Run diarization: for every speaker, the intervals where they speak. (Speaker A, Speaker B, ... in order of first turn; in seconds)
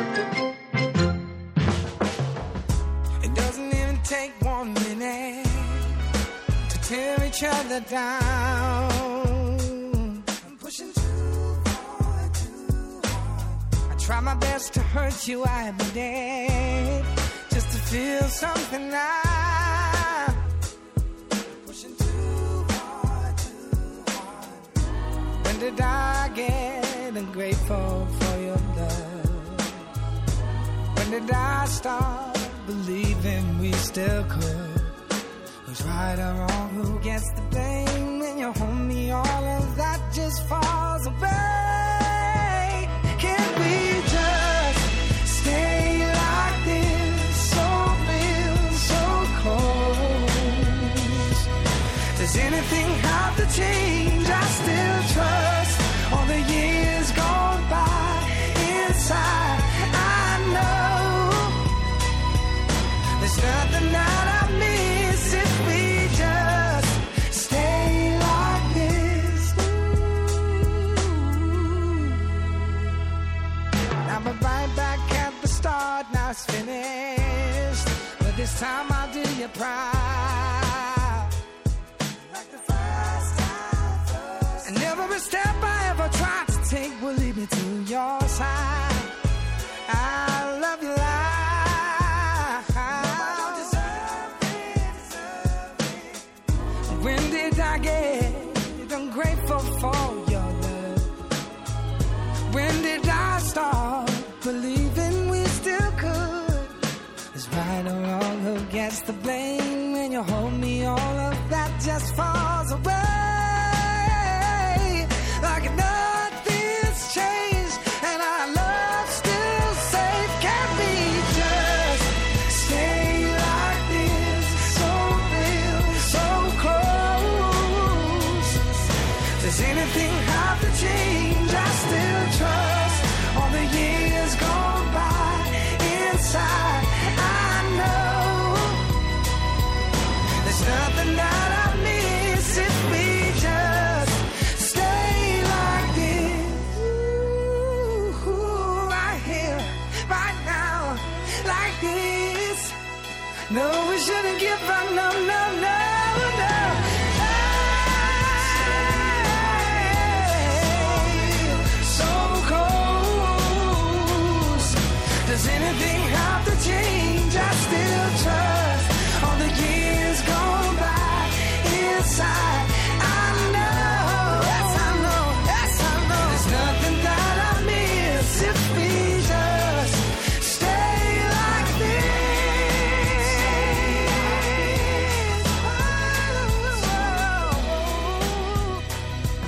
Speaker A: 3.2-6.0, 6.7-20.4, 21.6-24.6, 25.4-29.8, 30.9-35.0, 35.6-51.4, 52.1-61.7, 63.2-72.1, 74.0-81.3, 82.2-89.1, 89.9-96.0, 96.9-101.1, 102.5-106.8, 107.3-138.9, 140.4-152.8, 153.5-188.8